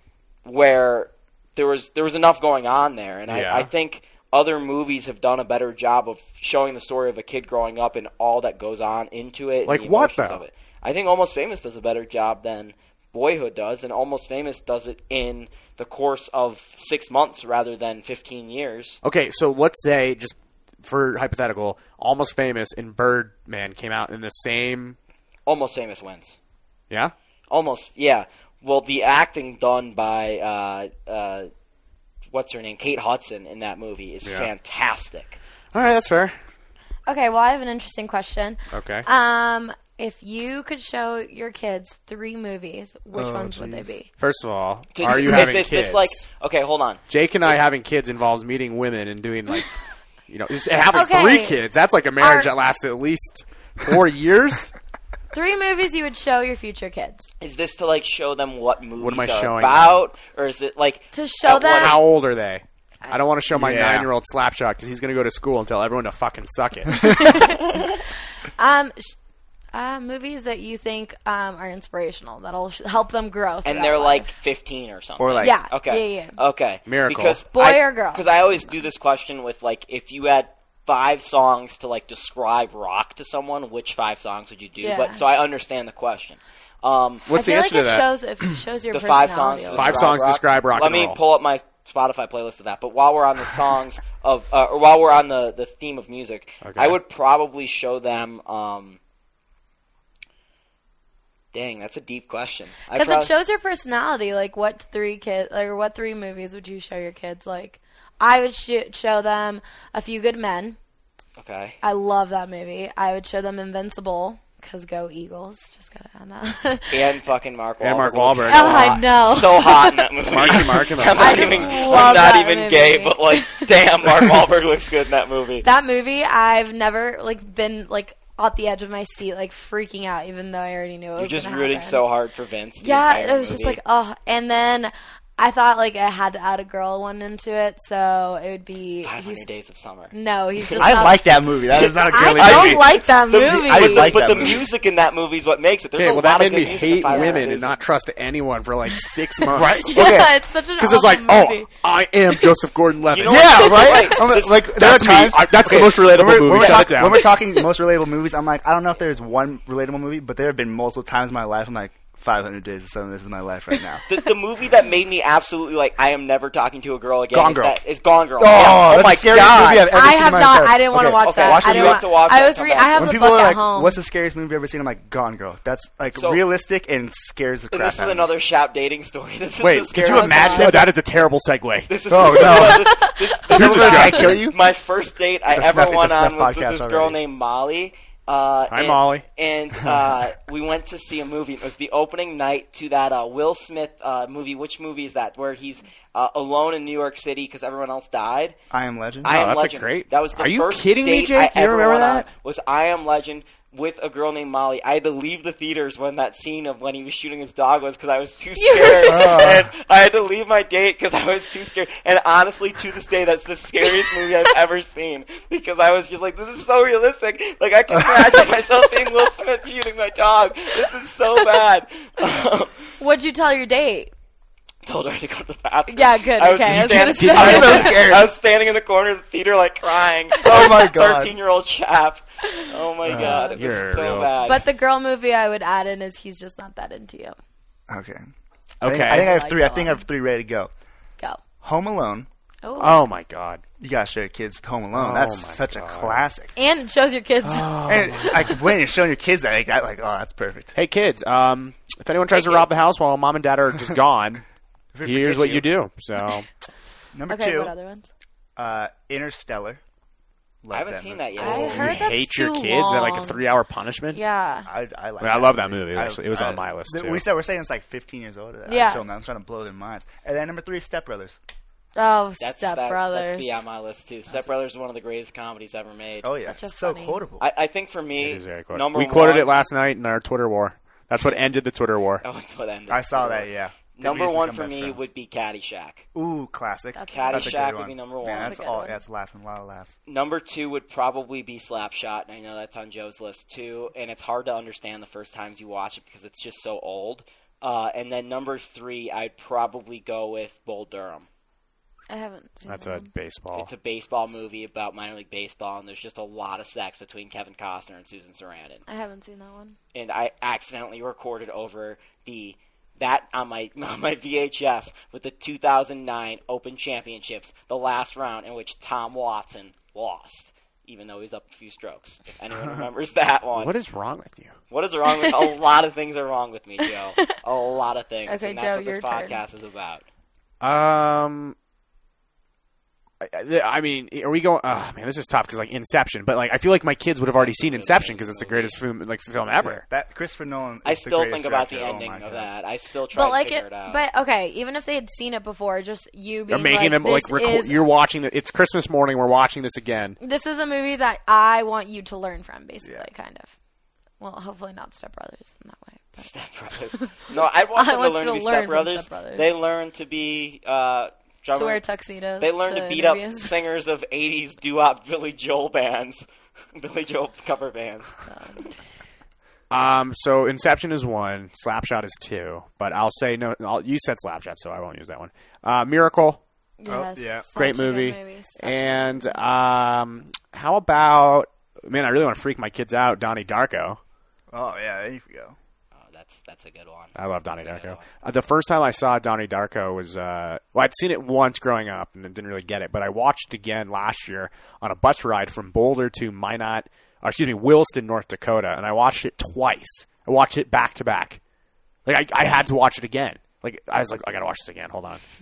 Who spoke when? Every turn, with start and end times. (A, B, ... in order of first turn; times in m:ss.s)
0:00.4-0:19.0 A
0:03.3-0:03.7 B
0:09.6-0:10.4 B
0:19.0-0:25.0 B
0:25.4-0:26.4 A
0:27.5-0:31.5 A
0:32.3-0:35.4 A
0:34.2-0:34.5 B
0:35.7-0:36.4 B
0:37.1-0:44.1 C
0:38.7-0:39.0 B
0:43.1-0:43.9 D
0:44.2-0:46.2 B
0:44.9-0:47.0 A
0:47.1-0:49.7 B
0:50.3-0:54.7 B
0:50.9-0:51.6 C
0:52.2-0:52.5 C
0:55.3-0:57.2 C
0:57.4-1:02.0 A
0:59.0-1:00.0 B
1:01.1-1:02.0 C
1:01.5-1:07.4 B
1:03.5-1:04.1 D
1:07.0-1:07.9 C
1:07.6-1:08.0 A
1:08.6-1:09.2 C
1:09.7-1:14.3 C
1:13.6-1:27.3 A
1:15.2-1:15.6 D
1:15.4-1:16.4 C
1:16.9-1:17.4 B
1:17.5-1:18.8 C
1:24.8-1:25.2 C
1:27.3-1:28.0 B
1:27.3-1:30.1 C
1:28.9-1:39.0 A
1:29.7-1:31.2 B
1:36.6-1:37.0 B
1:41.5-1:43.3 A
1:42.9-1:50.8 C
1:51.4-1:51.8 A
1:51.8-1:57.1 C
1:56.9-2:05.6 A
1:57.8-1:59.1 B
1:58.5-2:00.1 C
2:00.3-2:02.1 B
2:01.1-2:03.7 C
2:05.6-2:12.0 C
2:11.2-2:13.8 A
2:12.8-2:19.4 C
2:19.0-2:20.9 A
2:20.1-2:24.5 C
2:20.8-2:24.7 D
2:21.8-2:27.8 A
2:25.9-2:30.3 B
2:27.1-2:27.4 C
2:29.5-2:30.3 D
2:29.8-2:31.7 C
2:30.8-2:37.3 B
2:33.1-2:34.7 A
2:33.2-2:44.0 D
2:36.5-2:37.0 A
2:44.1-2:50.0 A
2:47.3-2:47.8 D
2:48.4-2:52.0 D
2:49.9-2:54.0 C
2:51.2-2:53.1 A
2:52.9-2:58.3 D
2:56.1-2:56.4 A
2:57.7-3:00.9 A
2:59.6-3:02.7 B
3:00.0-3:00.9 D
3:01.9-3:18.6 A
3:02.1-3:02.9 D
3:02.6-3:03.3 C
3:03.5-3:04.6 D
3:03.5-3:04.5 B
3:05.5-3:07.2 D
3:08.7-3:09.2 B
3:18.7-3:19.3 D
3:19.2-3:42.8 A
3:19.2-3:22.3 B
3:28.6-3:29.4 C
3:29.0-3:29.7 D
3:38.0-3:38.4 D
3:43.0-3:44.1 C
3:44.8-3:54.6 A
3:45.9-3:48.0 C
3:46.6-3:48.2 B
3:47.3-3:48.3 D
3:50.4-3:51.3 D
3:52.4-3:53.6 C
3:53.0-3:53.5 D
3:53.5-3:54.3 B
3:54.4-3:57.4 C
3:57.9-3:58.3 D
3:58.8-3:59.3 B
3:58.8-4:00.7 D
3:59.1-4:00.0 C
4:01.6-4:02.3 D
4:02.6-4:03.0 C
4:02.8-4:03.6 B
4:03.8-4:06.5 D
4:04.9-4:06.2 B
4:06.6-4:07.8 C
4:07.4-4:08.6 B
4:07.8-4:10.7 D
4:10.7-4:14.4 B
4:12.3-4:12.7 A
4:14.9-4:15.7 D
4:15.0-4:16.5 B
4:17.1-4:17.7 D
4:17.3-4:18.1 C
4:18.6-4:19.8 D
4:20.6-4:22.1 D
4:20.7-4:22.0 A
4:21.4-4:23.4 C
4:21.6-4:24.2 B
4:24.1-4:24.7 C
4:24.6-4:31.4 D
4:25.2-4:27.2 B
4:28.7-4:29.0 C
4:32.0-4:33.6 C
4:32.4-4:36.3 A
4:36.2-4:37.4 D
4:36.4-4:37.2 C
4:37.4-4:39.5 A
4:38.2-4:42.2 B
4:42.2-4:46.0 A
4:42.9-4:45.0 D
4:46.1-4:50.0 D
4:46.9-4:47.7 C
4:47.1-4:48.6 A
4:48.2-4:49.0 C
4:50.1-5:01.3 A
5:02.1-5:03.1 C
5:02.6-5:03.7 B
5:03.5-5:08.8 A
5:08.9-5:09.8 C
5:09.9-5:23.7 A
5:23.6-5:24.6 B
5:24.7-5:30.0 A
5:25.1-5:25.5 C
5:26.8-5:27.2 C
5:28.2-5:29.4 C
5:30.6-5:31.5 B
5:33.2-5:39.8 B
5:37.4-5:38.8 A
5:39.6-5:42.5 D
5:40.8-5:44.0 A
5:43.1-5:47.8 C
5:46.5-5:50.2 B
5:50.2-5:53.5 C
5:54.2-5:56.3 C
5:56.2-6:01.8 A
5:56.9-5:59.5 C
6:01.6-6:03.6 C
6:02.4-6:08.1 A
6:08.3-6:08.7 C
6:09.7-6:16.4 B
6:16.8-6:19.4 C
6:16.9-6:17.5 D
6:17.6-6:24.0 B
6:24.5-6:25.6 D
6:25.9-6:28.1 A
6:27.2-6:41.4 B
6:42.0-6:45.2 B